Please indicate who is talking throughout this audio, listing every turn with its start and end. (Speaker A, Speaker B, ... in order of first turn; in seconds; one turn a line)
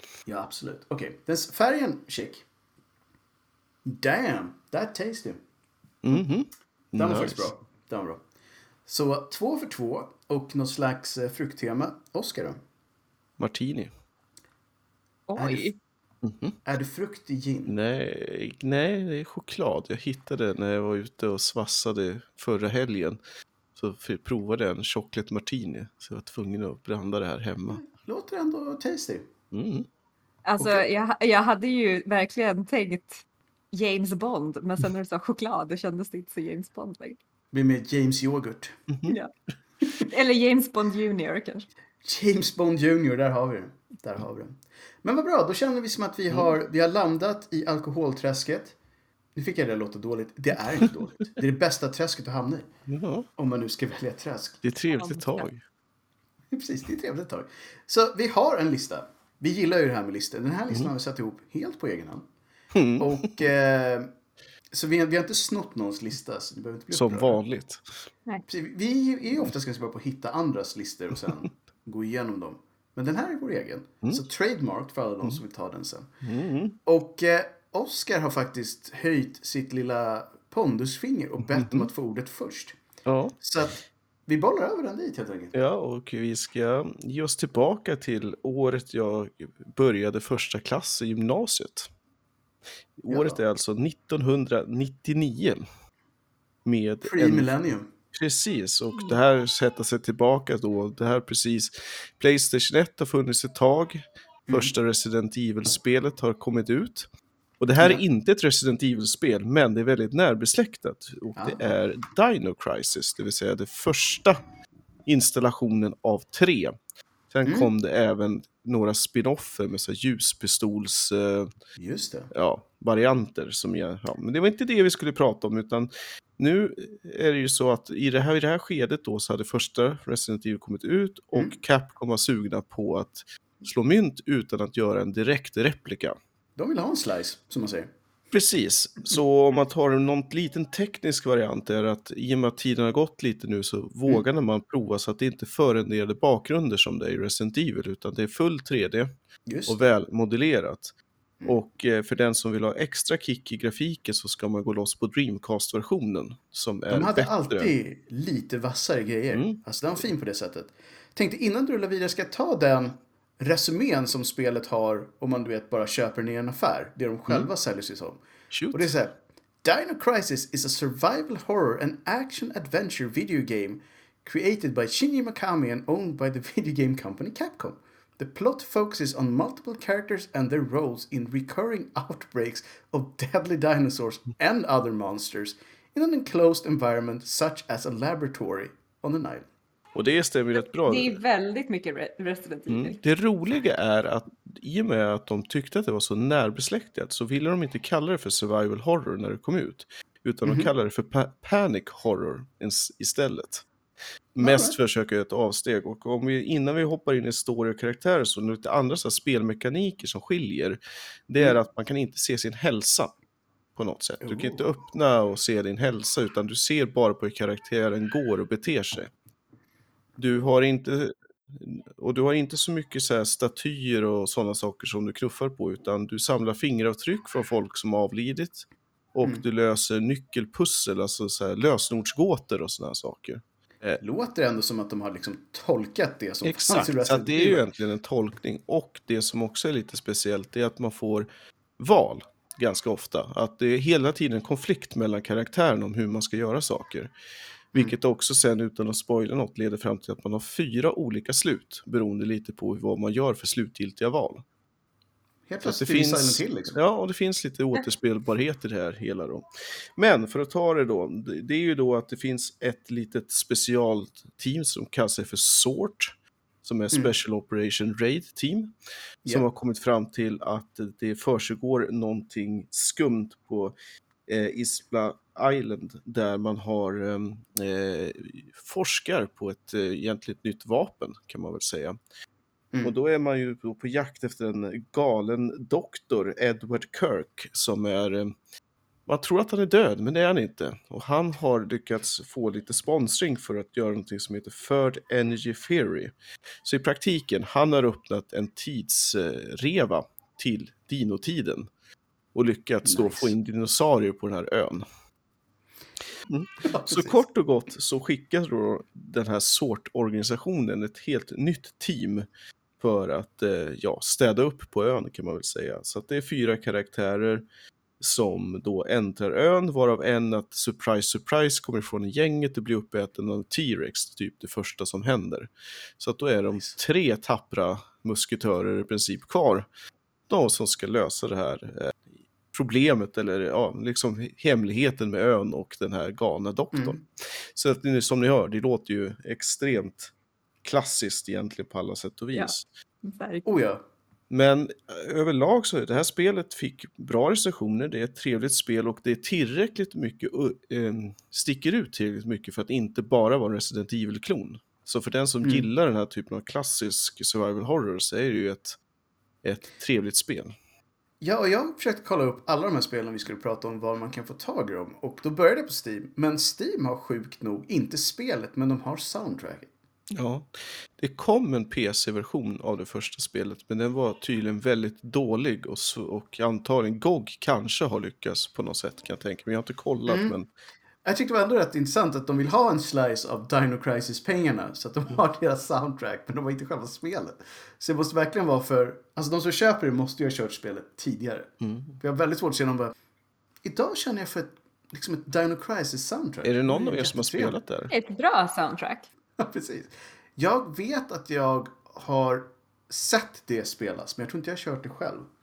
Speaker A: 0.2-2.4
Speaker A: 3.8-5.4
Speaker B: 6.0-7.5
Speaker A: 7.0-8.2
Speaker A: 8.8-12.6
Speaker B: 13.4-13.9
Speaker C: 15.3-15.7
Speaker A: 15.3-15.7
Speaker B: 16.2-16.6
Speaker A: 16.6-17.7
Speaker B: 17.6-23.2
Speaker B: 23.7-27.8
Speaker A: 27.7-29.3
Speaker B: 29.5-29.9
Speaker C: 30.4-37.2
Speaker A: 37.5-38.8
Speaker C: 40.0-41.7
Speaker A: 42.0-48.8
Speaker A: 49.3-52.7
Speaker B: 52.9-53.3
Speaker A: 53.4-54.6
Speaker B: 54.6-55.6
Speaker C: 54.9-55.5
Speaker A: 56.5-62.3
Speaker B: 62.7-63.4
Speaker A: 63.0-64.1
Speaker A: 64.7-67.4
Speaker B: 66.9-67.9
Speaker A: 68.5-76.1
Speaker B: 76.2-76.8
Speaker A: 76.8-82.8
Speaker B: 81.5-81.9
Speaker B: 83.0-83.4
Speaker A: 83.4-85.5
Speaker B: 85.5-91.9
Speaker B: 93.0-95.6
Speaker A: 93.1-93.4
Speaker B: 96.6-97.5
Speaker A: 97.0-97.9
Speaker B: 98.1-107.1
Speaker A: 104.5-104.7
Speaker B: 107.6-114.4
Speaker A: 111.3-111.7
Speaker B: 115.0-116.8
Speaker B: 117.3-121.5
Speaker A: 117.5-117.7
Speaker A: 121.8-122.3
Speaker B: 122.3-136.2
Speaker A: 136.6-137.9
Speaker B: 138.3-149.1
Speaker A: 149.5-149.8
Speaker B: 149.7-157.7
Speaker A: 156.9-189.5
Speaker B: 159.3-159.6
Speaker B: 168.5-168.9
Speaker B: 189.9-191.2
Speaker C: 190.6-193.0
Speaker B: 192.7-203.7
Speaker A: 200.4-200.7
Speaker A: 204.4-204.8
Speaker B: 204.4-213.1
Speaker B: 213.7-219.1
Speaker A: 214.2-214.6
Speaker B: 220.2-234.0
Speaker A: 234.0-237.7
Speaker B: 236.4-241.3
Speaker B: 241.8-247.1
Speaker B: 247.7-254.4
Speaker A: 255.5-256.8
Speaker B: 255.6-259.4
Speaker B: 260.0-268.7
Speaker B: 269.2-273.7
Speaker B: 274.3-282.0
Speaker B: 282.8-288.3
Speaker B: 289.1-296.1
Speaker B: 296.6-301.7
Speaker B: 302.3-304.9
Speaker A: 302.8-303.3
Speaker B: 306.3-312.2
Speaker A: 306.6-307.2
Speaker B: 312.8-317.4
Speaker B: 318.0-329.7
Speaker B: 330.3-332.0
Speaker B: 332.5-337.0
Speaker A: 336.7-337.0
Speaker B: 337.5-340.1
Speaker B: 340.6-342.6
Speaker C: 342.3-343.5
Speaker A: 343.4-343.8
Speaker B: 344.3-358.8
Speaker A: 355.4-355.7
Speaker B: 359.4-360.5
Speaker A: 361.2-369.7
Speaker B: 370.1-380.5
Speaker A: 380.1-380.4
Speaker A: 381.0-392.9
Speaker B: 391.6-391.9
Speaker A: 393.6-397.6
Speaker B: 396.4-397.9
Speaker C: 397.9-399.1
Speaker A: 399.4-405.3